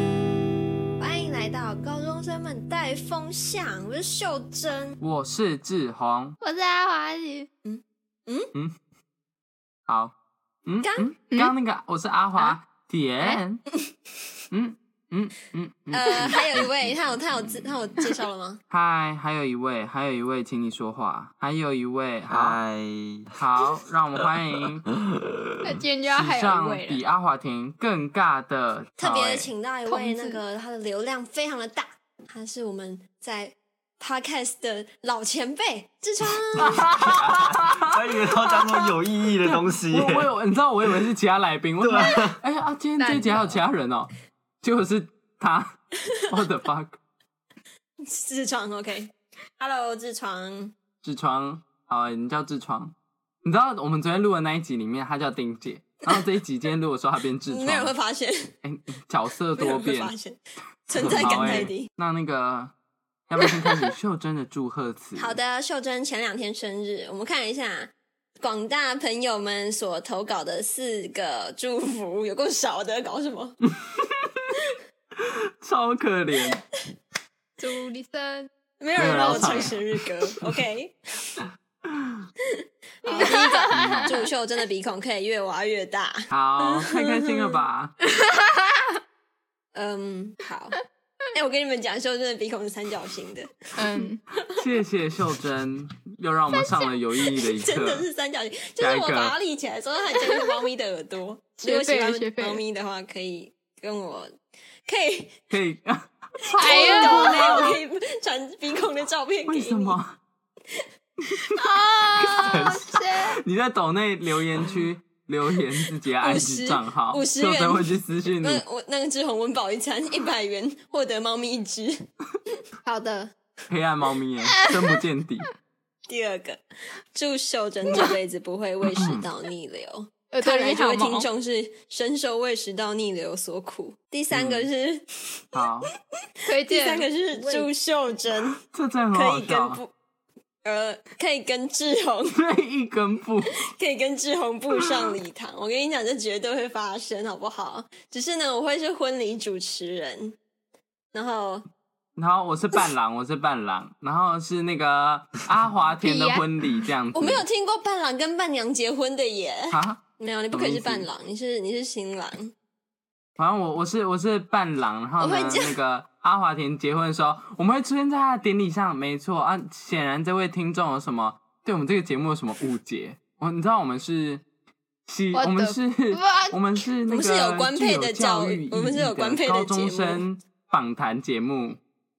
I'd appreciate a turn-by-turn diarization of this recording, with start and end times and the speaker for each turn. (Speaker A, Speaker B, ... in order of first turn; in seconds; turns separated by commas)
Speaker A: 1.0-5.0, Speaker B: 5.0-6.4, Speaker C: 6.4-7.5, Speaker A: 7.7-8.5, Speaker B: 9.9-10.1, Speaker B: 10.7-13.6, Speaker A: 10.8-11.1, Speaker B: 14.5-16.7, Speaker A: 15.9-18.6, Speaker B: 18.7-22.6, Speaker D: 22.3-23.4, Speaker B: 23.4-24.9, Speaker D: 24.2-25.8, Speaker C: 25.6-27.0, Speaker B: 26.1-29.5, Speaker A: 29.0-37.0, Speaker C: 29.9-30.4, Speaker B: 36.6-37.9, Speaker D: 37.2-40.3, Speaker B: 39.4-44.1, Speaker D: 41.8-42.4, Speaker C: 43.0-43.4, Speaker B: 44.6-47.0, Speaker A: 48.0-50.7, Speaker B: 51.0-57.9, Speaker A: 57.5-58.5, Speaker B: 58.6-60.1, Speaker A: 59.6-61.9, Speaker B: 60.9-62.7, Speaker B: 63.3-65.4, Speaker A: 63.4-63.9, Speaker A: 65.2-73.6, Speaker B: 73.7-76.6, Speaker C: 77.6-78.5, Speaker A: 78.8-81.4, Speaker B: 79.0-80.6, Speaker C: 79.2-79.7, Speaker B: 81.9-82.3, Speaker A: 83.0-87.6, Speaker C: 83.1-84.2, Speaker B: 83.7-84.2, Speaker B: 86.3-88.0, Speaker C: 88.3-88.7, Speaker A: 89.7-90.8, Speaker A: 91.3-94.1, Speaker C: 93.8-94.2, Speaker B: 94.5-98.1, Speaker A: 97.3-104.3, Speaker B: 98.8-99.3, Speaker C: 101.6-102.6, Speaker A: 104.9-105.3, Speaker B: 105.5-107.8, Speaker A: 106.5-110.0, Speaker C: 106.6-107.8, Speaker B: 109.5-110.2, Speaker C: 111.6-113.4, Speaker B: 112.2-118.6, Speaker A: 114.6-114.8, Speaker A: 116.2-122.0, Speaker A: 122.5-123.3, Speaker B: 123.7-125.5, Speaker A: 126.1-126.6, Speaker A: 127.1-135.4, Speaker B: 128.9-129.2, Speaker C: 130.3-131.3, Speaker B: 134.3-134.7, Speaker B: 135.5-135.9, Speaker C: 136.5-137.7, Speaker A: 136.7-138.6, Speaker B: 138.6-139.8, Speaker A: 139.1-139.9, Speaker A: 140.7-142.4, Speaker B: 142.3-143.7, Speaker A: 143.7-150.4, Speaker A: 151.1-151.7, Speaker B: 152.2-157.4, Speaker C: 156.0-156.5, Speaker A: 157.1-162.5, Speaker B: 159.7-160.0, Speaker B: 160.5-161.1, Speaker B: 163.4-174.4, Speaker A: 165.2-165.7, Speaker B: 175.1-181.8, Speaker C: 175.3-176.6, Speaker A: 177.1-180.2